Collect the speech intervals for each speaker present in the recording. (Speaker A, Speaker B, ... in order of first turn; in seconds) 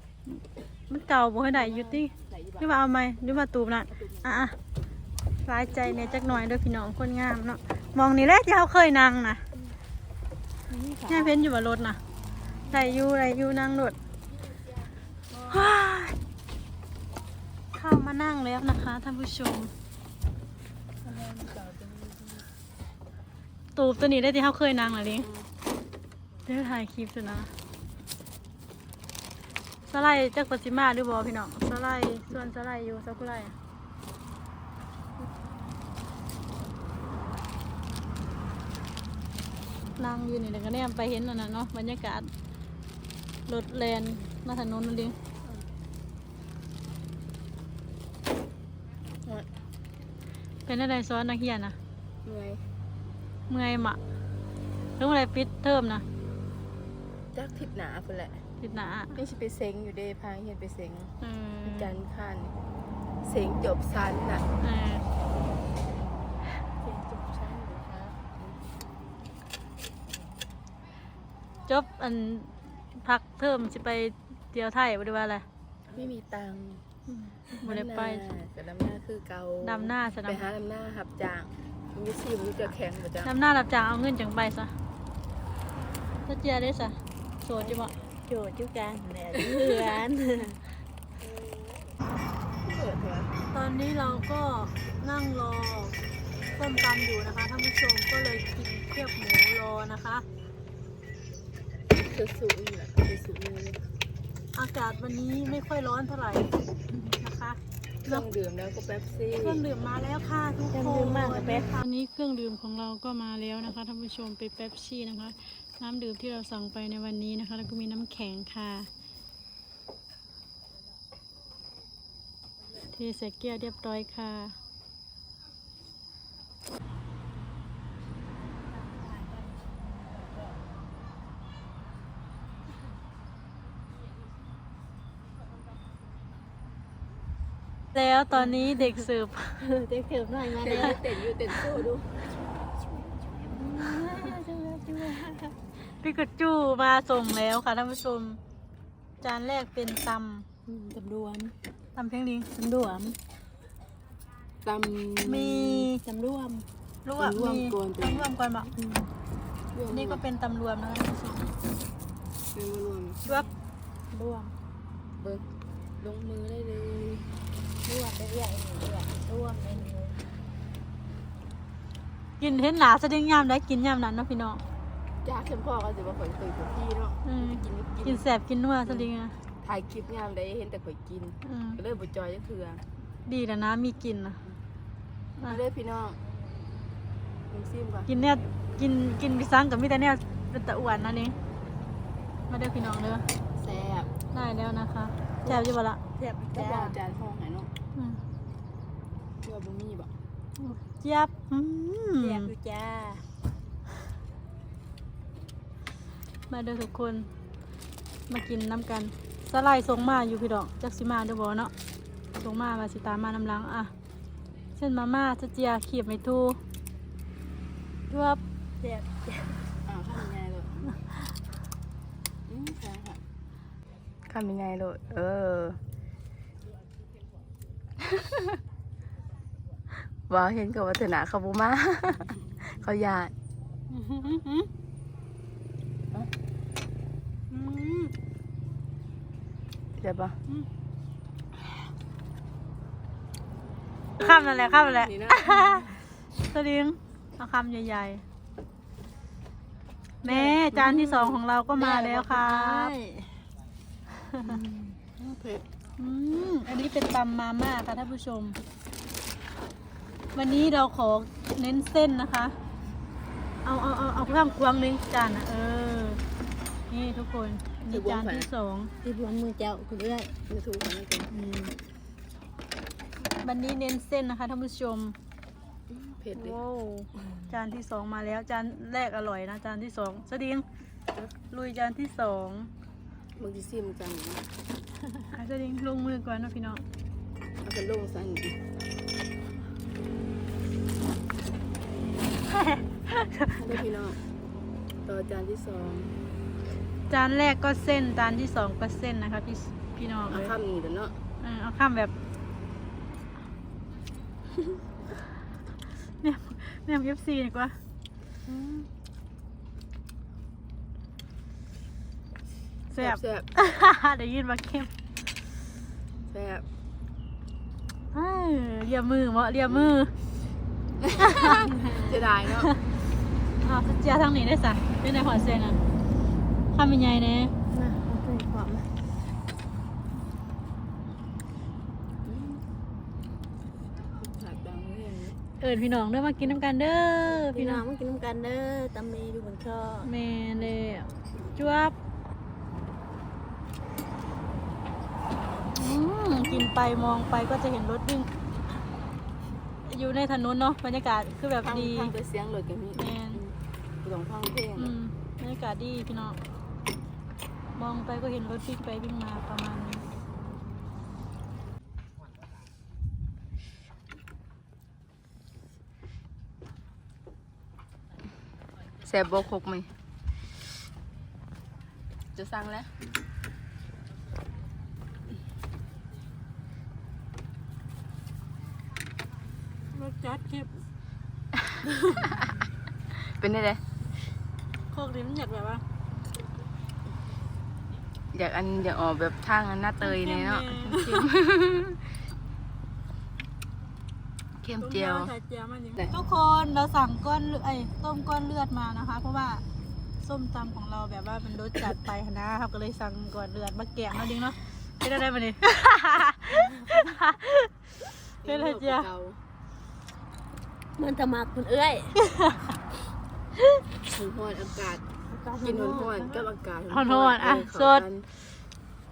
Speaker A: 0.3-4.5, 5.5-9.4, 11.1-12.0, 12.7-14.0, 15.5-16.1, 17.7-19.7, 23.8-25.3, 26.5-27.5, 29.9-33.5, 40.0-42.3, 43.5-45.2, 50.7-51.8, 53.5-54.0, 55.0-56.0, 58.6-59.2, 61.2-61.9, 64.6-65.0, 71.7-75.5, 77.1-78.2, 79.6-80.5, 83.2-84.7, 86.3-87.9, 93.5-96.0, 96.6-100.2, 104.5-108.2, 109.4-118.9, 122.9-124.5, 137.9-139.6, 143.6-144.4, 145.9-148.4, 149.2-150.5, 151.9-152.5, 155.2-156.0, 157.1-158.7, 159.9-161.4, 164.1-164.5, 172.4-174.6, 177.2-179.3, 181.4-181.8, 183.3-184.4, 188.1-191.3, 192.5-193.3, 194.3-196.0, 200.6-202.5, 206.5-207.3, 208.3-211.7, 212.3-213.9, 214.8-216.6, 218.1-218.4, 233.9-234.7, 237.5-238.1, 244.2-248.2, 250.2-252.9, 256.0-258.6, 260.4-262.6, 263.6-266.2, 266.9-268.9, 273.4-275.1, 276.4-280.6, 281.5-282.7, 285.3-286.8, 292.5-293.6, 297.1-300.5, 301.4-302.1, 306.2-307.8, 312.9-314.9, 318.1-320.1, 321.2-321.7, 323.6-325.8, 326.7-327.5, 335.6-337.8, 340.0-341.9, 345.7-348.3, 349.9-352.1, 352.9-353.4, 354.8-356.4, 357.8-360.1, 379.9-380.7, 381.9-382.4, 384.9-385.8, 390.0-391.3, 394.8-399.6, 400.2-407.7, 408.4-409.1, 412.3-412.6, 415.7-418.1
Speaker B: 1.5-2.7, 3.9-4.4, 5.8-6.4, 15.3-15.8, 21.0-22.5, 52.2-52.6, 57.3-58.4, 59.1-61.1, 61.6-62.5, 63.2-64.5, 66.8-68.6, 75.9-76.8, 77.6-83.3, 89.4-90.0, 91.4-91.9, 92.6-93.4, 102.0-103.8, 108.0-109.6, 140.5-142.2, 154.6-155.9, 157.2-158.3, 159.7-160.2, 162.5-163.2, 165.2-165.4, 166.0-167.3, 175.2-178.2, 179.6-182.8, 185.5-186.2, 187.5-188.1, 193.6-194.1, 196.5-197.7, 199.4-200.1, 219.9-221.0, 222.5-223.2, 224.3-225.8, 230.3-233.3, 239.9-240.3, 244.2-246.0, 250.2-252.3, 254.6-255.7, 267.9-268.5, 270.5-271.3, 275.9-276.6, 283.4-284.5, 287.6-288.6, 293.6-294.2, 295.1-296.1, 300.3-301.2, 312.9-313.5, 316.3-316.6, 321.0-322.7, 332.2-332.6, 334.1-335.4, 351.6-354.9, 369.0-369.9, 372.4-372.9, 382.2-382.5, 383.1-383.8, 388.3-392.0, 394.6-395.3, 408.4-409.4, 414.1-415.0, 415.6-418.3
Speaker C: 10.7-11.1, 88.3-90.6, 110.7-111.7, 138.6-139.1, 139.6-141.6, 143.2-145.5, 150.7-151.5, 152.6-153.2, 156.0-156.7, 158.8-159.1, 167.8-170.2, 196.1-197.0, 202.2-203.2, 218.8-219.3, 251.8-253.3, 269.0-270.3, 271.3-271.7, 321.6-322.2, 327.7-328.9, 337.2-340.1, 406.7-407.1, 411.0-412.2, 415.4-415.8